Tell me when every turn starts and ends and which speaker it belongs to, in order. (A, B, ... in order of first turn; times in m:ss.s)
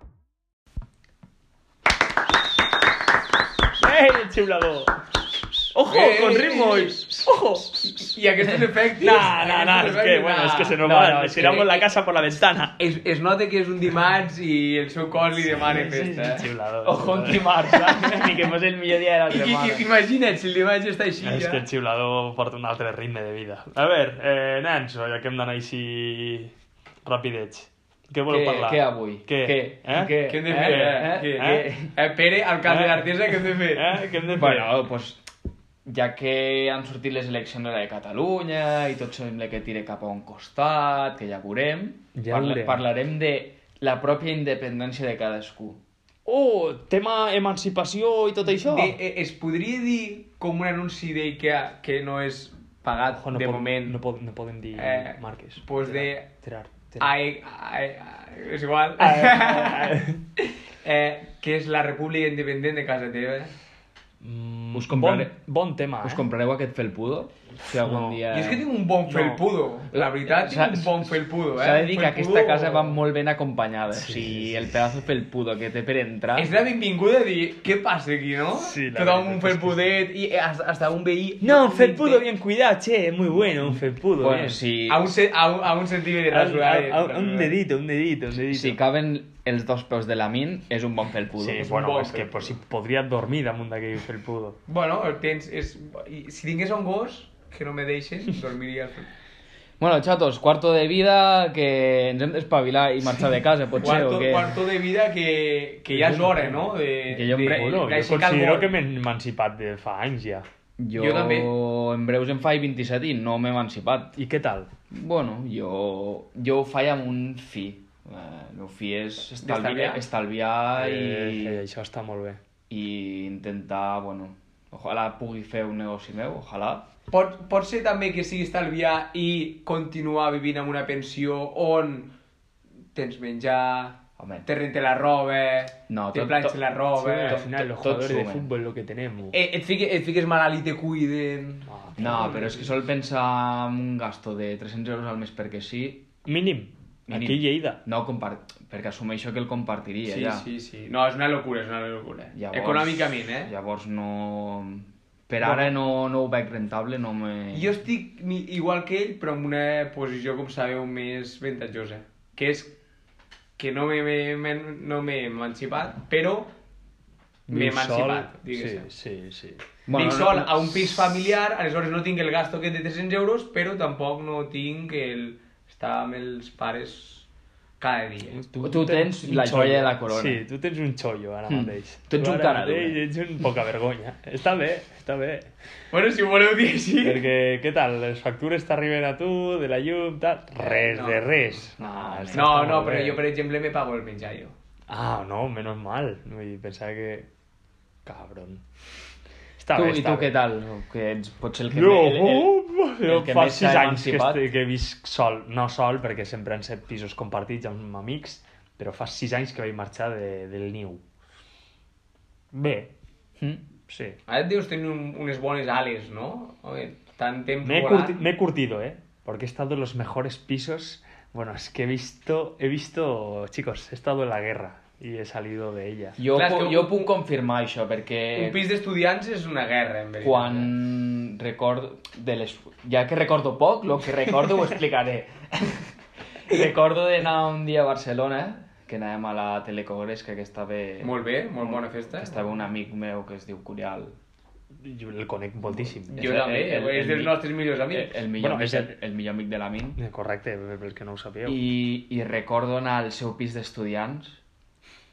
0:03.8-0:05.0 A
0:05.7-0:07.4 A
0:05.9-0:11.9 B
0:09.0-0:12.8 A
0:12.8-0:16.4 B
0:15.6-0:18.2 A
0:16.8-0:19.9 C
0:19.3-0:21.6 B
0:21.2-0:26.5 A
0:27.0-0:31.7 A
0:28.3-0:31.9 C
0:30.2-0:34.0 B
0:32.6-0:34.7 A
0:34.4-0:35.2 C
0:35.8-0:45.8 C
0:42.1-0:42.8 A
0:46.2-0:49.0 A
0:48.6-0:54.0 B
0:53.2-0:57.1 A
0:54.8-0:56.3 B
0:57.0-1:03.5 B
0:59.0-1:00.2 A
1:04.2-1:06.3 A
1:04.7-1:05.4 C
1:06.0-1:08.6 C
1:07.7-1:08.2 A
1:08.3-1:13.0 B
1:09.0-1:09.5 A
1:09.9-1:16.6 C
1:13.9-1:14.7 A
1:16.4-1:22.2 B
1:18.6-1:19.9 A
1:21.4-1:24.6 A
1:23.6-1:25.1 C
1:24.9-1:27.6 B
1:26.3-1:28.8 A
1:28.5-1:32.1 C
1:31.4-1:34.6 A
1:31.6-1:32.5 B
1:34.7-1:39.1 B
1:39.8-1:44.5 C
1:43.8-1:48.7 B
1:46.3-1:46.6 A
1:47.1-1:47.9 C
1:47.4-1:50.4 A
1:50.8-1:54.2 C
1:51.0-1:51.5 B
1:54.2-1:54.7 A
1:54.9-2:01.6 C
1:59.4-2:00.0 B
2:00.7-2:02.4 A
2:02.7-2:06.8 C
2:07.1-2:12.1 B
2:12.9-2:17.4 B
2:14.2-2:14.5 C
2:15.9-2:16.6 C
2:17.0-2:19.4 A
2:17.2-2:18.5 C
2:19.3-2:22.6 B
2:21.7-2:22.4 A
2:22.0-2:26.1 C
2:26.2-2:27.8 A
2:27.1-2:30.4 C
2:30.0-2:33.5 B
2:32.3-2:37.7 C
2:35.4-2:35.7 A
2:37.5-2:42.8 B
2:43.6-2:46.5 B
2:47.5-2:48.9 B
2:47.5-2:49.6 A
2:49.8-2:50.9 C
2:49.9-2:57.3 B
2:57.8-2:58.4 B
2:58.4-3:05.5 A
2:58.6-3:00.4 C
3:01.5-3:03.0 C
3:05.9-3:07.2 B
3:07.0-3:13.2 A
3:10.6-3:11.4 B
3:11.8-3:13.0 C
3:12.3-3:14.5 B
3:14.9-3:17.3 A
3:18.0-3:18.6 A
3:19.6-3:20.3 A
3:19.7-3:22.5 C
3:21.7-3:31.0 A
3:23.0-3:24.5 C
3:32.5-3:32.9 A
3:33.9-3:34.2 A
3:34.3-3:38.2 B
3:37.6-3:46.2 A
3:46.2-3:48.6 C
3:46.3-3:47.1 B
3:48.3-3:50.7 B
3:50.2-3:55.9 C
3:56.5-4:04.2 C
4:01.0-4:02.5 B
4:04.8-4:06.2 A
4:05.7-4:10.0 C
4:06.1-4:08.1 B
4:08.4-4:08.9 A
4:10.0-4:11.6 A
4:11.4-4:14.4 C